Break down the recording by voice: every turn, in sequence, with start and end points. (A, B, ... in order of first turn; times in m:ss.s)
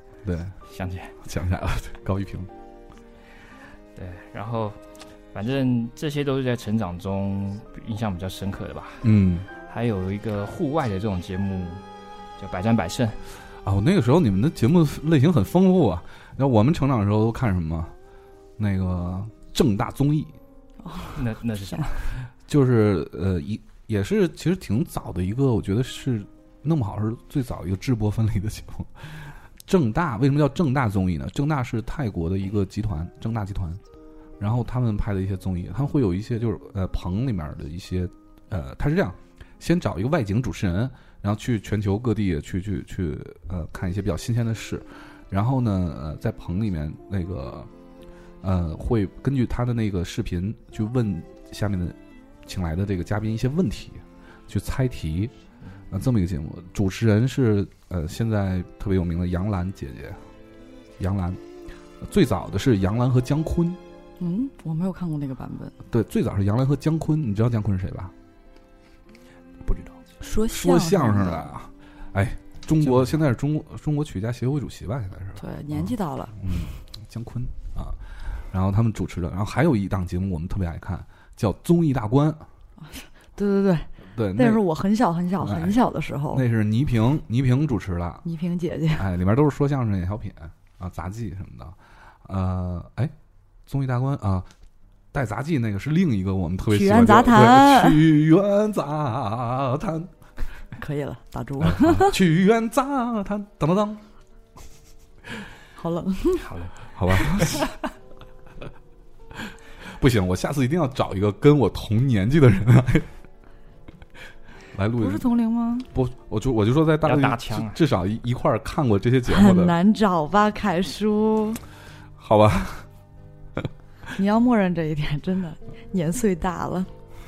0:00.2-0:00.6 A
0:00.6-0:01.2 B
0:01.2-0:02.5 A
0:04.0-0:09.1 B
0:09.0-0:09.5 A
0:09.7-0:11.8 B
0:12.4-0:13.2 B
0:13.6-0:17.9 A
0:18.6-0:20.4 A
0:20.8-0:21.2 C
0:21.1-0:22.1 B
0:22.5-0:33.8 A
0:34.4-0:47.7 A
0:48.4-0:55.3 A
0:55.9-1:00.2 A
1:01.0-1:01.4 A
1:02.0-1:03.8 A
1:04.2-1:05.7 C
1:05.9-1:08.1 A
1:09.6-1:10.0 B
1:10.2-1:11.5 C
1:10.5-1:22.4 A
1:12.8-1:13.1 B
1:15.4-1:16.4 C
1:22.8-1:26.4 C
1:24.1-1:24.6 A
1:25.4-1:25.8 A
1:26.3-1:28.3 A
1:28.2-1:29.1 C
1:28.9-1:33.1 A
1:33.7-1:34.5 A
1:35.1-1:40.1 A
1:36.7-1:38.0 C
1:40.8-1:42.2 C
1:41.6-1:44.0 A
1:45.8-1:46.4 C
1:46.4-1:47.7 B
1:47.0-1:47.7 A
1:49.5-1:53.1 A
1:54.7-1:55.3 A
1:55.0-1:55.9 C
1:55.9-1:59.7 A
1:57.0-1:57.8 B
1:59.3-2:01.6 C
2:02.2-2:02.9 A
2:04.2-2:06.9 C